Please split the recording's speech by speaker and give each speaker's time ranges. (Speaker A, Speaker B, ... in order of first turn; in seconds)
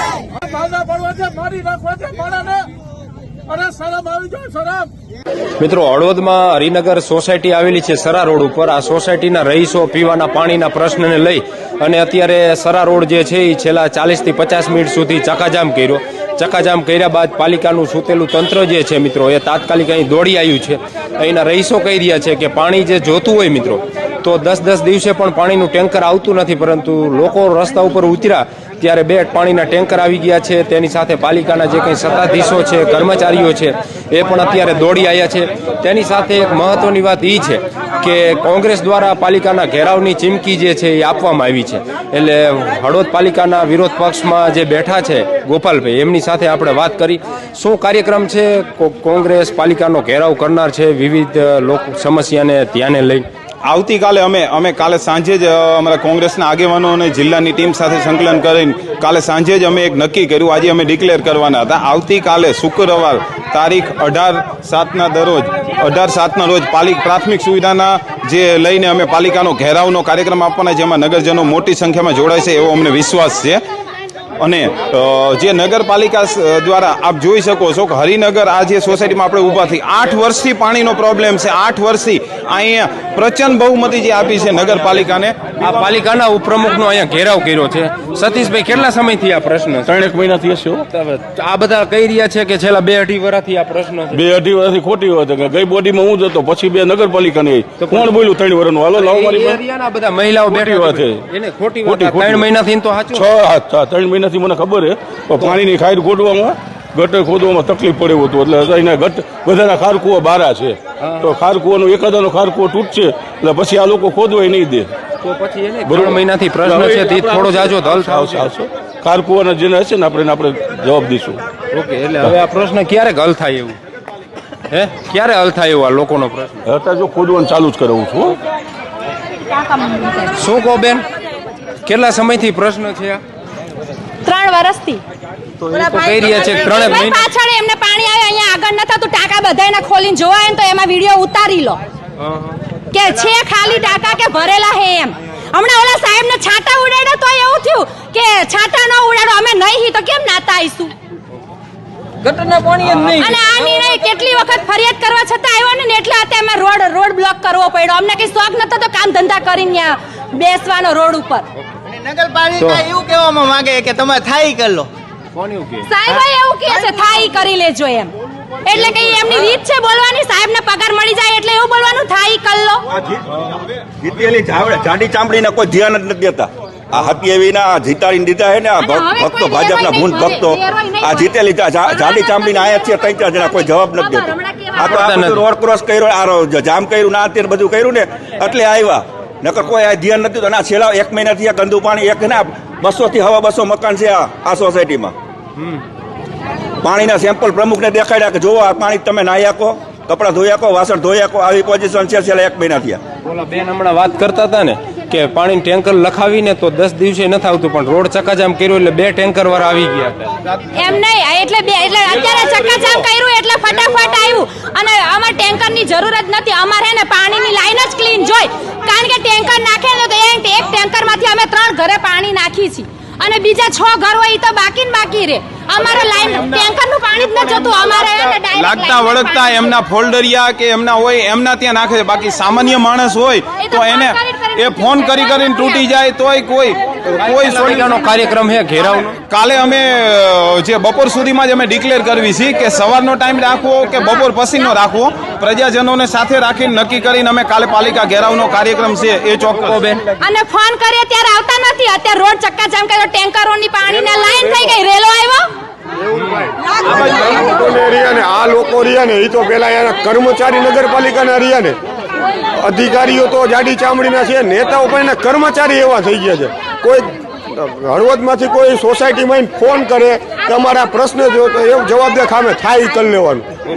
Speaker A: 0.5-2.6, 3.5-4.9
Speaker B: 5.6-53.3, 85.6-89.9, 90.9-94.2, 97.8-98.1, 99.0-103.3, 111.0-111.3, 115.2-118.5, 121.7-123.8, 124.7-126.6, 130.3-131.0, 131.9-133.2, 135.6-137.2, 152.2-153.3, 162.6-162.8, 165.3-165.9, 184.8-185.4, 203.3-210.3, 237.2-239.2, 249.6-250.0, 256.1-256.5
Speaker C: 53.6-73.6, 74.4-85.4, 227.7-238.0, 239.3-249.8
Speaker D: 89.8-90.8, 94.1-99.6, 100.5-101.2, 101.8-102.5, 103.1-114.9, 115.9-121.4, 126.7-128.4
Speaker E: 129.7-130.2, 134.2-135.0, 136.6-141.8, 142.9-150.9, 153.1-161.5, 165.9-168.1, 168.7-172.9, 178.8-181.3, 210.7-229.7, 233.6-235.6, 250.2-255.5
Speaker F: 161.9-164.9
Speaker G: 173.0-195.2, 196.8-203.0
Speaker H: 256.9-261.8, 262.6-273.5